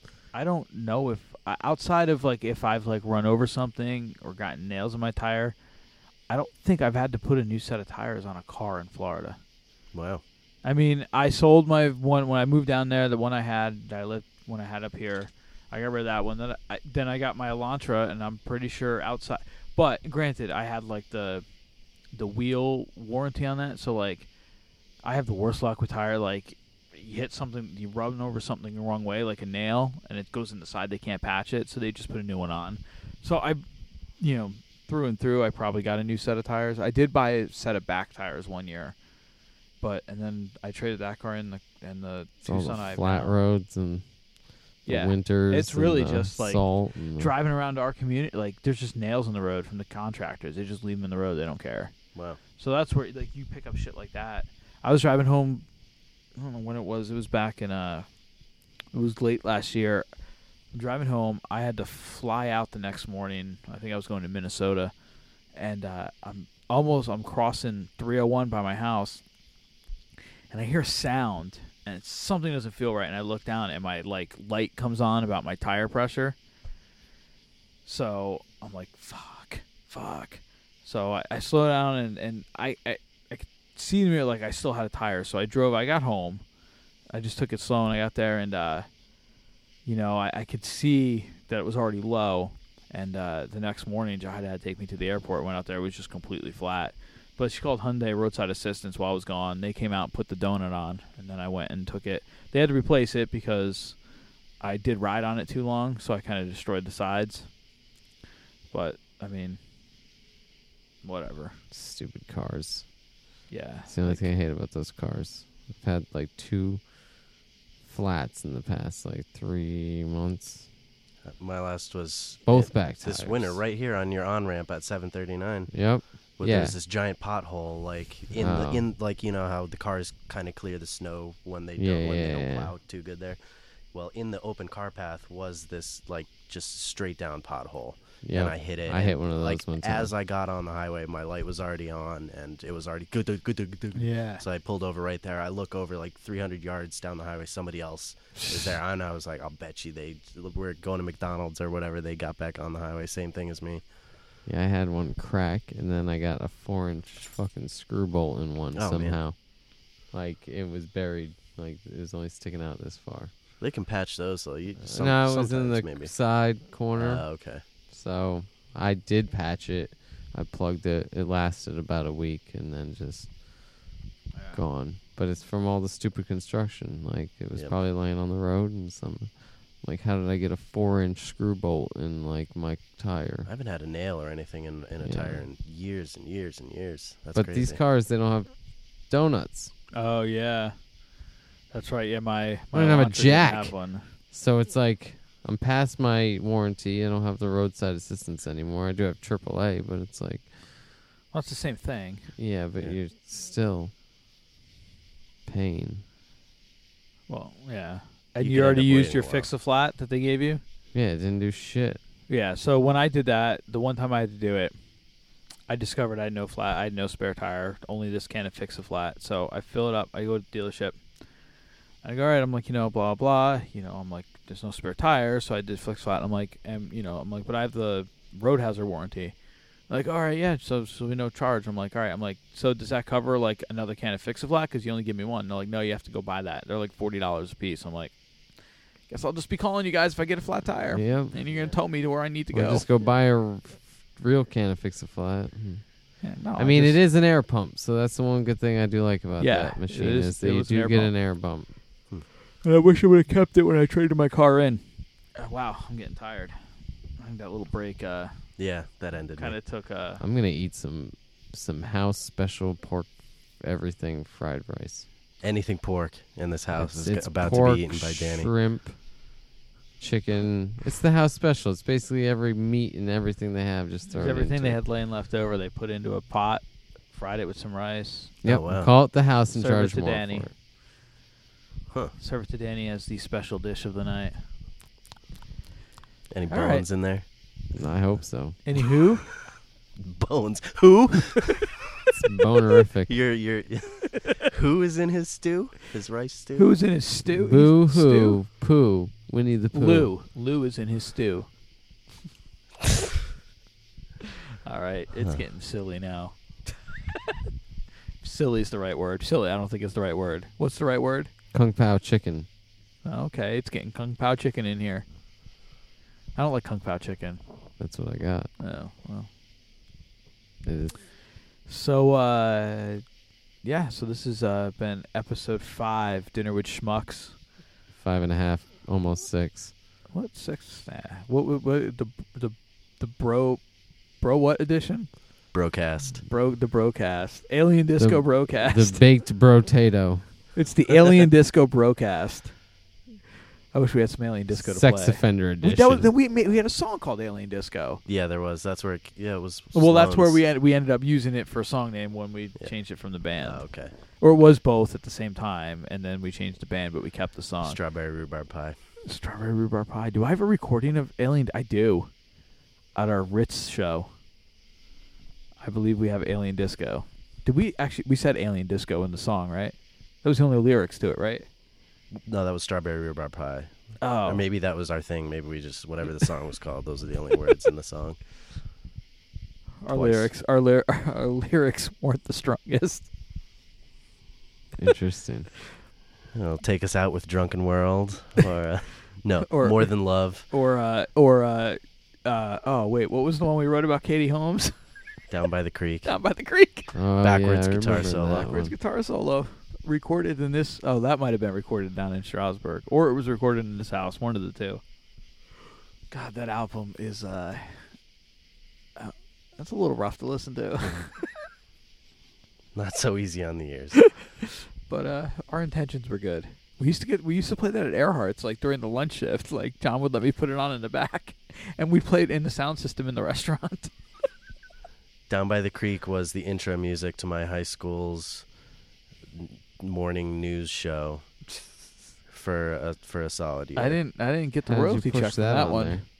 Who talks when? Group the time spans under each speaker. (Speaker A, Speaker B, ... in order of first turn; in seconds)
Speaker A: 0.3-5.6, 6.3-9.4, 10.6-21.5, 22.1-24.3, 25.0-33.6, 34.2-39.0, 39.8-43.4, 44.9-51.9, 52.6-55.7, 56.4-58.1, 58.9-60.1, 60.7-64.9, 65.5-69.2, 70.5-76.4, 77.8-86.4, 87.1-88.9, 89.8-104.0, 104.6-107.5, 108.7-109.6, 111.0-111.6, 113.5-114.3, 143.9-144.4, 174.3-174.6, 189.9-190.8, 191.7-194.1, 201.3-203.0, 207.3-210.6, 212.3-214.7, 215.7-221.1, 222.0-229.4, 229.9-242.9, 246.2-247.1, 249.4-251.1, 252.6-254.8, 255.3-256.6, 257.2-258.4, 259.4-260.2, 274.1-278.3, 279.5-280.5, 282.2-284.4, 286.5-286.9, 288.6-289.3, 296.6-298.4, 299.7-301.5, 304.7-307.2, 308.2-311.3, 313.0-315.1, 316.4-317.4, 318.6-319.3, 321.6-323.0, 323.6-327.4, 330.1-335.1, 336.3-339.1, 340.6-342.6, 343.7-348.0, 349.7-357.8, 359.1-362.1, 362.9-364.1, 365.6-371.5, 374.0-374.4, 379.8-383.1, 389.4-394.7, 396.1-397.0, 398.4-404.8, 406.1-407.9, 409.0-411.3, 414.9-423.9, 433.8-436.0
Speaker B: 9.9-10.2, 121.3-153.9, 158.7-159.2, 163.6-167.6, 183.4-187.8, 208.4-209.5, 241.5-241.8, 258.6-259.6, 265.4-268.5, 278.4-278.9, 286.3-287.3, 289.5-291.8, 293.1-296.7, 335.5-336.2, 348.1-350.4, 353.4-353.9, 357.6-358.8, 372.1-378.2, 379.9-380.3, 386.3-390.5, 395.3-396.1, 397.2-398.6, 412.8-414.1, 425.3-428.5, 429.3-431.3, 432.3-434.0
Speaker C: 42.5-44.2, 44.7-47.3, 111.7-113.0, 113.9-116.9, 117.8-120.7, 122.5-123.6, 125.7-126.8, 128.3-128.8, 131.8-132.7, 138.2-140.1, 154.5-163.3, 164.8-173.4, 174.5-183.5, 185.0-185.4, 187.3-189.7, 192.7-200.6, 202.4-203.9, 205.5-206.0, 210.9-212.0, 240.9-241.4, 242.5-251.8, 260.2-265.1, 266.7-269.0, 270.0-274.8, 278.4-280.5, 287.7-288.6, 292.1-293.2, 297.3-300.1, 311.5-312.5, 317.8-318.5, 320.6-321.0, 327.9-329.7, 338.0-340.6, 344.5-346.1, 384.8-385.5, 396.9-398.7, 434.7-436.1